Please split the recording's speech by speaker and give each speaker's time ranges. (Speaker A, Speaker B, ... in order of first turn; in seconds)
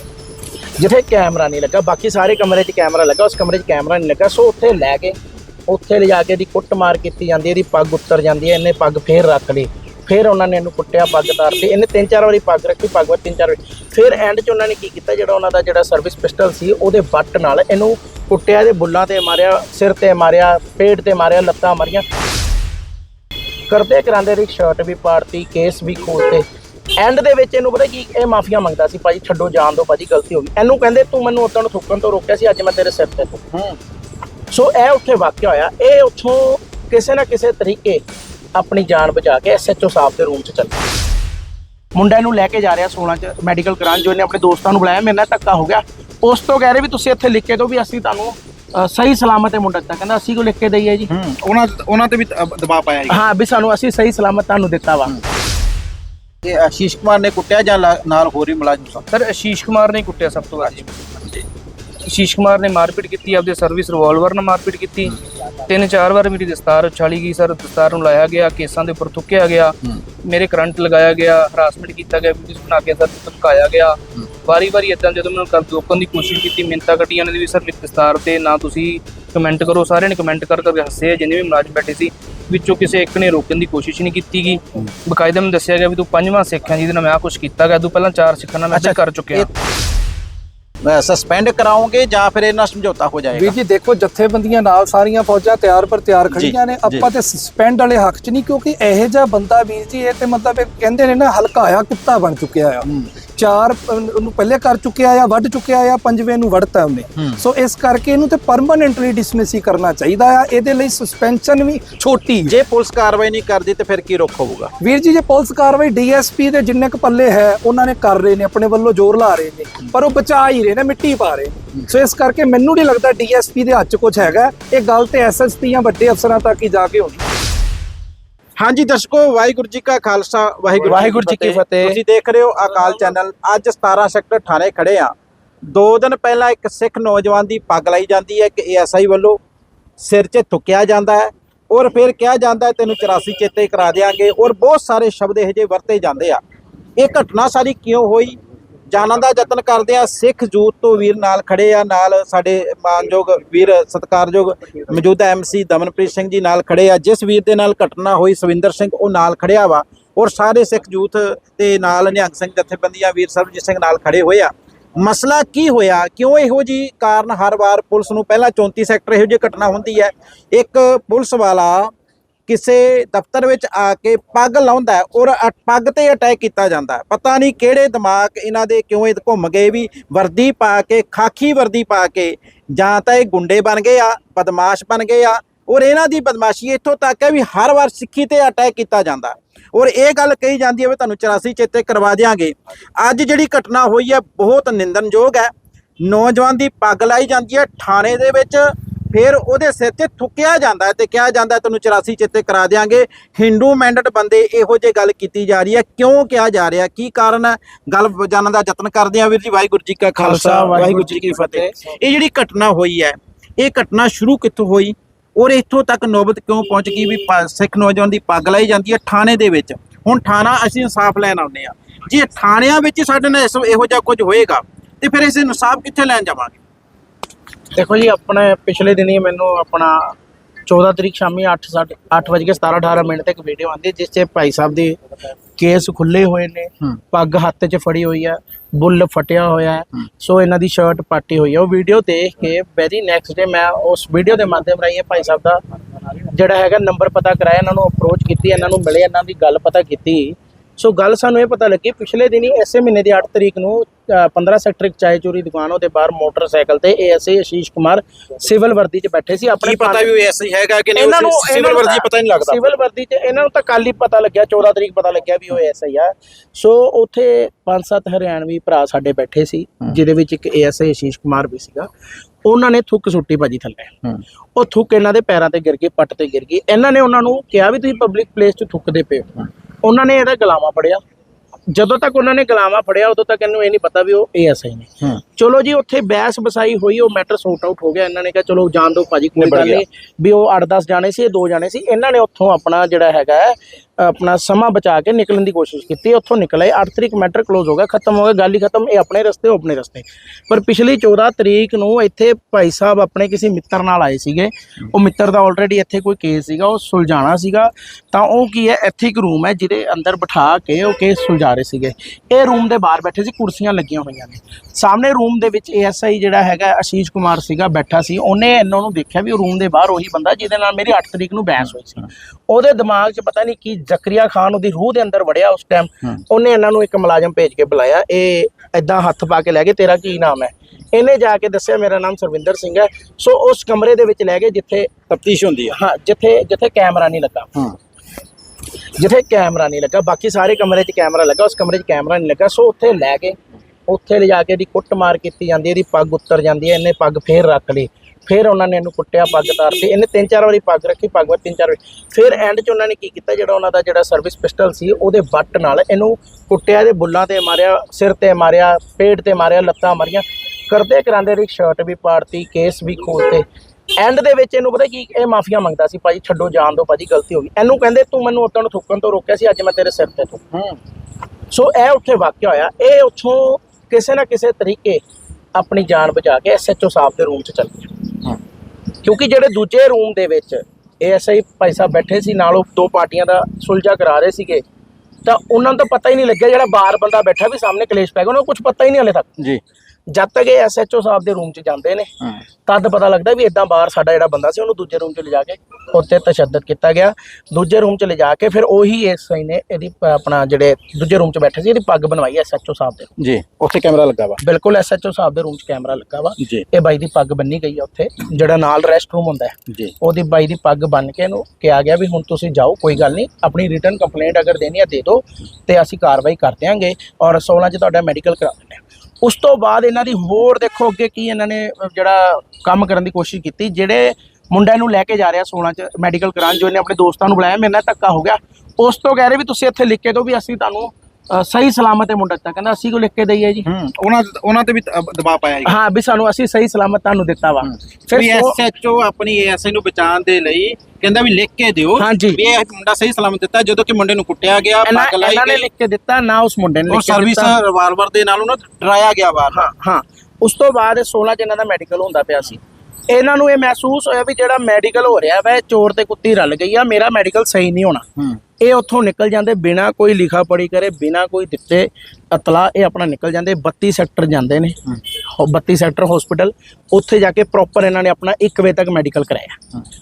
Speaker A: 0.8-22.1, 23.7-33.4, 34.5-38.0, 38.5-40.8, 41.9-51.1, 53.1-55.2, 130.8-132.0, 210.2-211.7, 227.7-230.2, 230.7-235.0, 235.6-245.6, 246.2-260.1, 260.9-271.9, 272.4-274.0, 274.6-281.0, 281.7-334.9, 335.7-337.5, 338.9-370.4, 371.5-375.0, 375.5-378.0, 379.0-384.6, 385.2-389.3, 390.1-392.1, 392.6-403.1, 404.4-433.7, 435.6-438.6, 442.0-442.4, 444.8-447.6, 449.5-458.1, 458.6-464.8, 465.3-469.6
Speaker B: 51.1-53.2, 56.4-59.0, 88.7-89.5, 90.8-93.5, 96.3-97.1, 112.5-114.7, 128.6-135.1, 135.7-139.4, 140.0-146.4, 147.0-148.4, 148.9-171.9, 172.5-226.6, 259.6-262.7, 289.4-289.8, 335.1-335.8, 370.5-370.8, 403.2-404.4, 406.4-406.6, 433.6-435.8, 437.6-445.7, 446.9-449.7
Speaker C: 59.1-60.9, 62.0-89.5
Speaker D: 93.3-112.5, 114.8-127.2